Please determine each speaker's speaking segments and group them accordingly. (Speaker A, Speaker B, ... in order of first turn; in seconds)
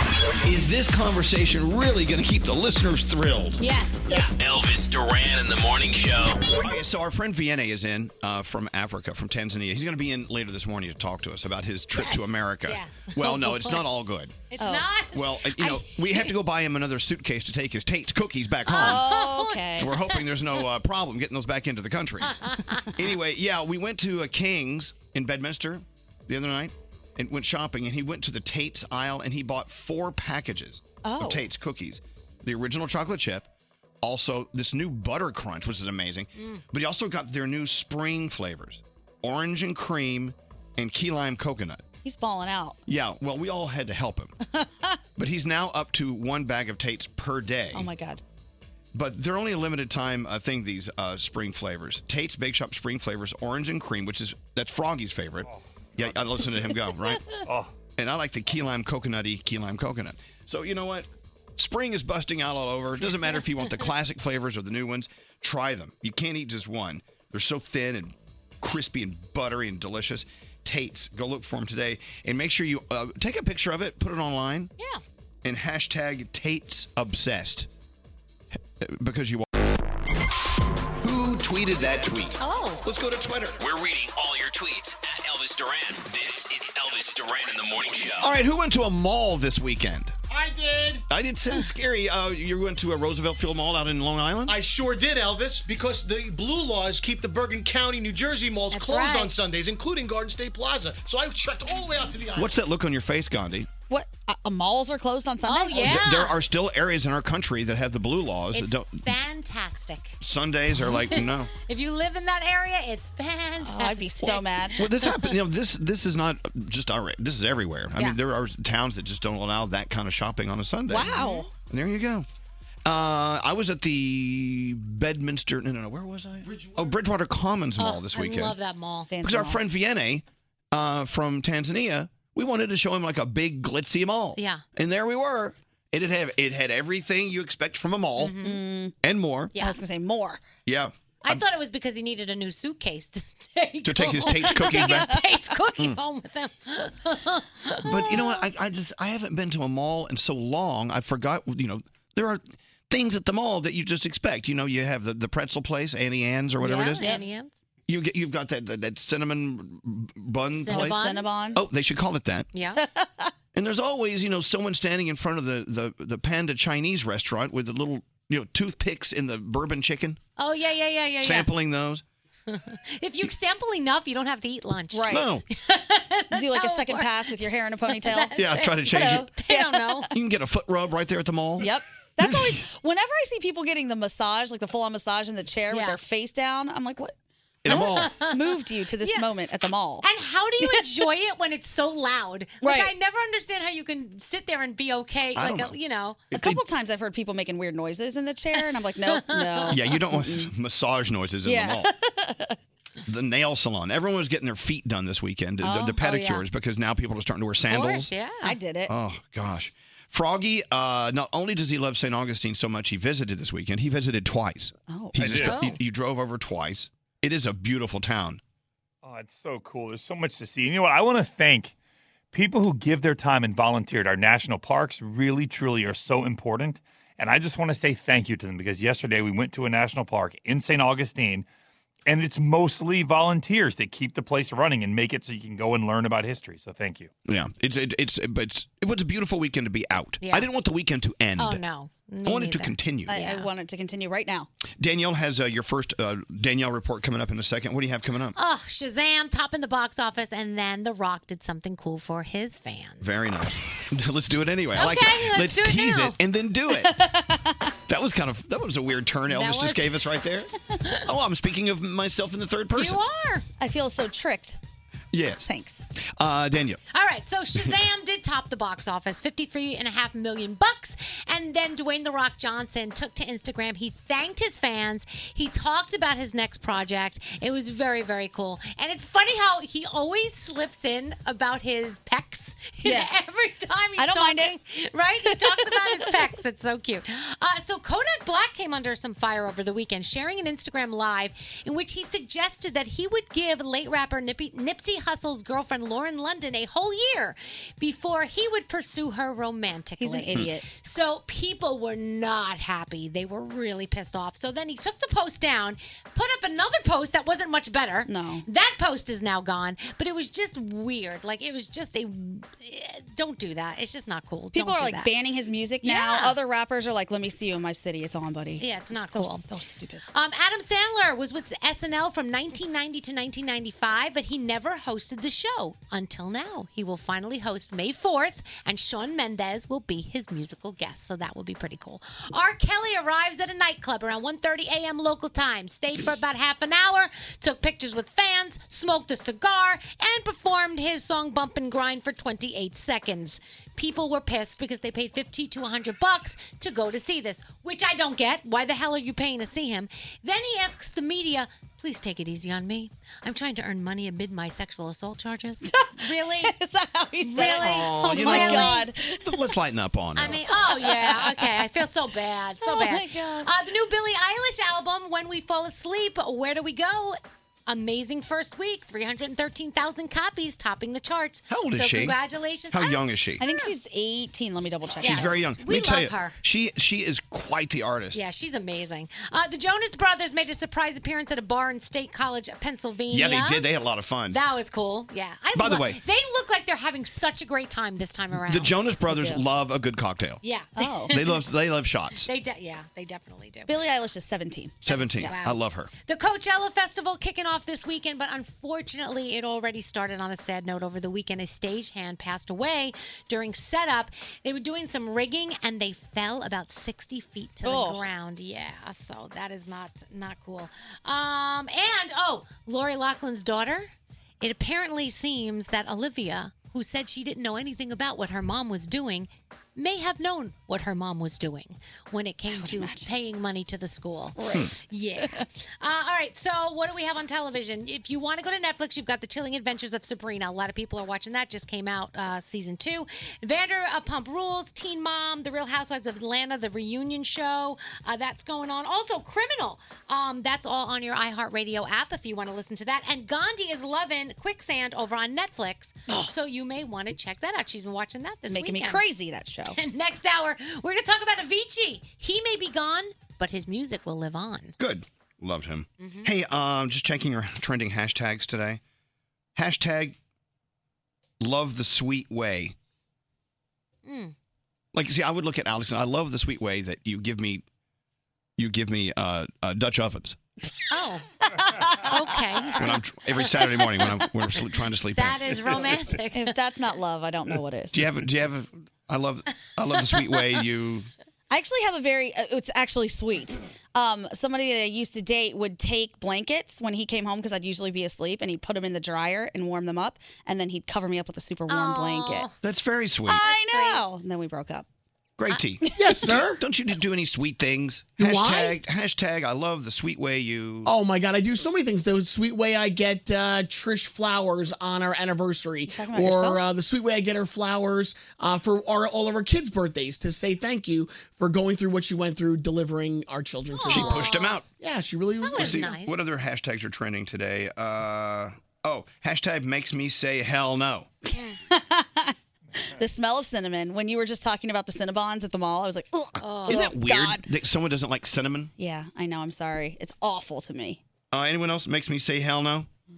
Speaker A: 0.5-3.6, 6.5-14.4, 15.1-19.1, 19.8-22.3, 23.0-33.5, 34.0-41.8, 42.9-44.4, 45.2-47.9, 48.9-57.4, 58.0-74.7, 75.4-77.7, 78.6-79.6, 81.0-83.6, 88.2-90.1, 91.1-94.6, 102.4-103.7, 105.8-109.0, 110.2-111.5, 114.8-122.3, 122.8-128.6, 129.2-138.4, 139.0-139.5, 140.7-141.4, 143.8-145.2, 147.8-157.1, 157.9-161.0, 161.6-162.5, 163.5-170.2, 171.2-172.0, 175.1-175.4, 178.4-179.3, 180.1-181.7, 182.2-182.6, 187.7-188.1, 195.4-195.8, 196.3-196.6, 199.7-201.9, 203.1-208.1, 208.9-218.4, 237.3-241.6, 242.2-243.2, 244.8-248.3, 253.0-256.9, 257.9-260.5, 261.1-263.0, 265.1-265.5, 266.2-266.8, 357.6-360.4, 371.5-372.2, 372.7-373.4, 375.0-378.2, 383.1-384.4, 385.6-386.0, 388.4-390.4, 391.1-392.3, 394.8-395.9, 454.8-458.8, 459.6-460.2, 461.4-462.8, 464.9-467.6, 468.6-470.4, 472.8-475.5, 477.9-481.1, 492.6-493.4, 495.4-500.9, 513.9-514.7, 515.5-521.1, 526.7-528.7, 531.3-532.9
Speaker B: 3.6-4.3, 11.9-13.8, 14.5-16.3, 18.7-20.2, 22.2-22.9, 82.4-82.9, 98.7-99.3, 105.5-106.4, 108.5-110.2, 110.8-115.3, 121.1-121.4, 127.8-129.1, 134.4-134.7, 138.2-138.6, 141.2-147.9, 156.6-157.6, 160.5-161.3, 162.5-162.8, 170.4-171.5, 172.5-180.1, 185.7-186.0, 187.7-188.4, 189.0-189.3, 190.0-196.2, 198.6-199.8, 206.0-206.4, 207.7-208.6, 215.4-215.8, 240.2-240.5, 241.4-243.5, 248.3-253.2, 254.8-256.2, 259.3-260.0, 262.8-263.5, 266.9-315.1, 315.8-316.4, 318.6-319.5, 320.1-356.6, 357.2-358.9, 360.2-373.7, 375.0-376.4, 378.1-383.6, 384.3-388.8, 390.4-391.4, 392.2-393.8, 394.9-413.9, 414.4-449.0, 449.7-454.8, 456.0-456.3, 464.1-464.3, 470.9-471.3, 472.0-473.0, 475.1-476.6, 491.7-492.5, 493.4-494.0, 513.7-514.6, 515.4-516.2, 526.4-526.9
Speaker C: 4.4-6.4, 83.6-88.3
Speaker D: 14.6-14.8, 18.7-20.0, 31.1-31.4, 42.0-42.8, 44.6-45.0, 47.7-48.2, 103.9-106.0, 113.6-114.8, 120.9-121.5, 129.1-129.6, 138.4-138.9, 139.6-140.5, 144.5-145.2, 157.0-157.2, 160.7-161.6, 162.8-163.3, 174.9-175.3, 176.3-178.3, 178.9-180.0, 181.6-187.2, 187.7-190.1, 192.6-192.9, 196.3-200.5, 201.4-202.6, 205.6-206.0, 208.4-208.9, 214.9-215.6, 243.1-244.5, 256.8-257.7, 263.6-264.6, 265.4-265.9, 282.8-283.1, 284.0-284.5, 285.3-286.4, 300.0-300.7, 308.1-308.5, 314.5-320.0, 355.6-359.4, 360.5-361.6, 362.6-363.5, 373.4-375.3, 389.1-389.4, 390.8-391.1, 393.7-395.3, 407.6-408.1, 422.5-423.1, 424.4-425.5, 448.5-449.8, 471.5-472.2, 476.3-478.2, 481.5-492.5, 493.3-494.9, 505.9-506.6, 521.3-527.5, 528.8-531.0
Speaker E: 55.4-56.6, 57.5-57.7, 215.2-215.5, 219.0-221.7, 222.3-231.5, 232.1-237.1
Speaker F: 90.3-91.0, 94.5-102.6, 126.5-127.0
Speaker G: 496.0-496.6, 498.2-498.8, 500.9-515.8